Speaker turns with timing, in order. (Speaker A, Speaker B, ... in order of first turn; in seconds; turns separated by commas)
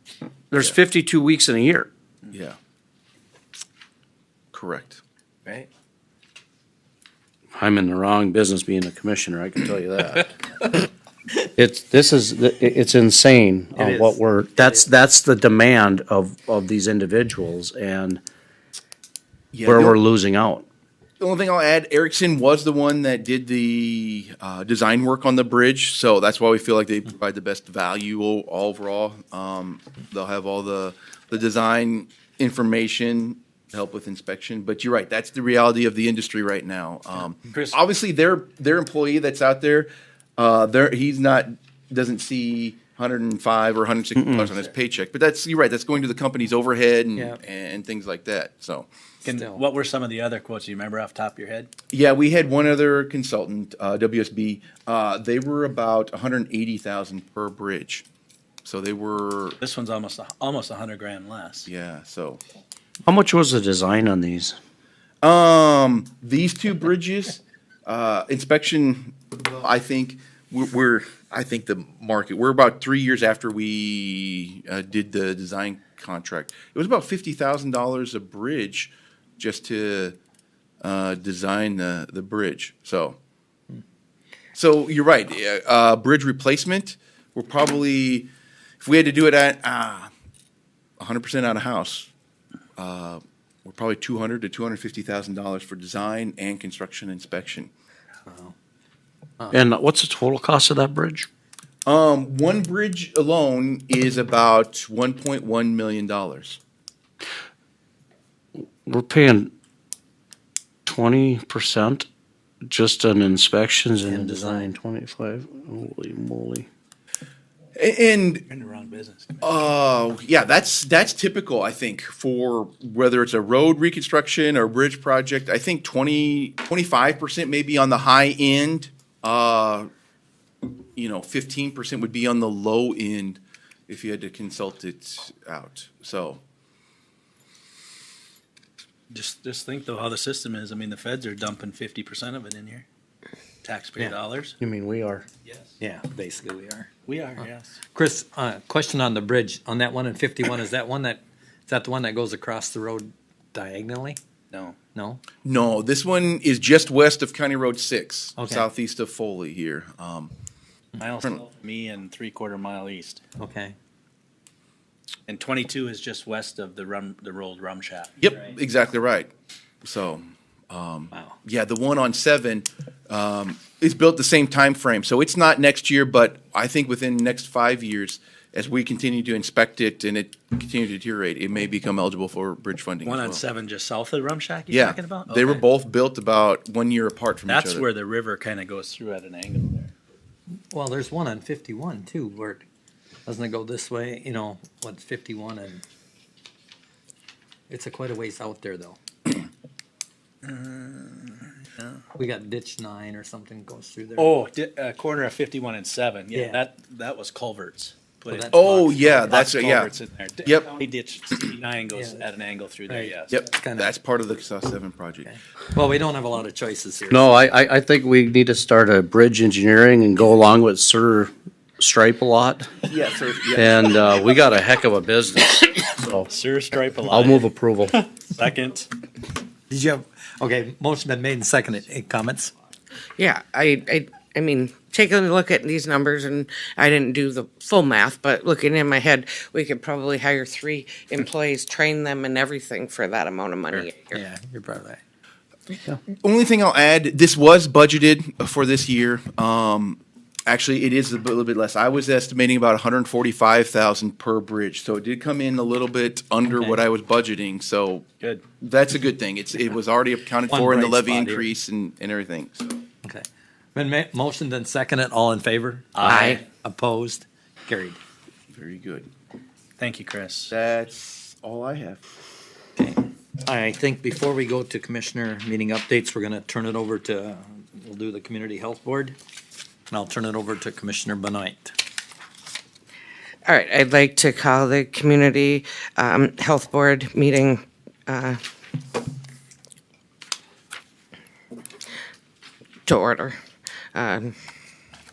Speaker A: 0.5-1.9, Speaker B: 2.3-2.6, Speaker B: 4.5-5.0, Speaker A: 7.5-10.3, Speaker A: 11.6-18.2, Speaker C: 13.8-14.9, Speaker B: 19.5-20.0, Speaker A: 19.6-20.6, Speaker B: 21.2-48.9, Speaker D: 37.5-37.8, Speaker D: 49.2-51.7, Speaker C: 49.3-49.6, Speaker B: 51.9-58.0, Speaker B: 58.6-59.6, Speaker D: 59.6-61.7, Speaker B: 61.7-62.4, Speaker A: 63.0-64.6, Speaker B: 65.2-80.2, Speaker B: 80.8-83.2, Speaker B: 84.5-88.3, Speaker B: 88.8-90.1, Speaker B: 91.0-92.1, Speaker B: 92.8-97.7, Speaker C: 98.3-98.5, Speaker A: 99.5-101.3, Speaker B: 101.9-106.6, Speaker A: 108.9-109.5, Speaker A: 110.9-112.1, Speaker A: 112.7-116.7, Speaker C: 114.1-114.7, Speaker B: 117.8-118.5, Speaker D: 118.5-119.7, Speaker B: 119.4-129.9, Speaker B: 131.0-136.4, Speaker D: 139.1-142.8, Speaker D: 143.6-144.6, Speaker A: 144.6-145.3, Speaker C: 145.8-146.9, Speaker D: 147.1-147.8, Speaker C: 147.9-154.2, Speaker D: 154.5-154.8, Speaker C: 154.9-155.2, Speaker B: 155.4-160.3, Speaker C: 158.4-158.7, Speaker C: 160.9-161.3, Speaker D: 161.4-163.2, Speaker C: 163.4-163.8, Speaker D: 165.3-168.2, Speaker B: 168.2-169.3, Speaker B: 169.8-183.4, Speaker C: 171.1-171.4, Speaker D: 183.0-185.7, Speaker B: 184.7-187.9, Speaker D: 187.5-189.9, Speaker C: 190.7-192.7, Speaker C: 193.3-195.8, Speaker C: 197.7-199.0, Speaker D: 200.4-202.0, Speaker C: 202.2-204.3, Speaker D: 204.2-213.4, Speaker C: 206.3-206.6, Speaker C: 208.3-209.4, Speaker B: 208.5-210.7, Speaker C: 211.9-212.2, Speaker C: 212.9-213.9, Speaker B: 213.3-215.3, Speaker C: 215.2-217.3, Speaker A: 217.1-222.7, Speaker B: 222.8-223.9, Speaker A: 223.5-226.3, Speaker D: 226.3-228.9, Speaker A: 227.1-228.0, Speaker C: 229.7-232.5, Speaker E: 233.2-244.2, Speaker C: 244.1-245.0, Speaker B: 246.1-258.1, Speaker C: 256.4-256.8, Speaker B: 258.6-262.7, Speaker C: 260.5-261.5, Speaker C: 263.0-268.0, Speaker D: 265.9-266.4, Speaker E: 266.1-266.4, Speaker B: 268.5-269.1, Speaker D: 269.8-270.5, Speaker B: 270.5-272.0, Speaker C: 272.8-279.2, Speaker C: 279.9-281.8, Speaker E: 283.5-288.4, Speaker E: 292.9-293.4, Speaker E: 293.9-294.4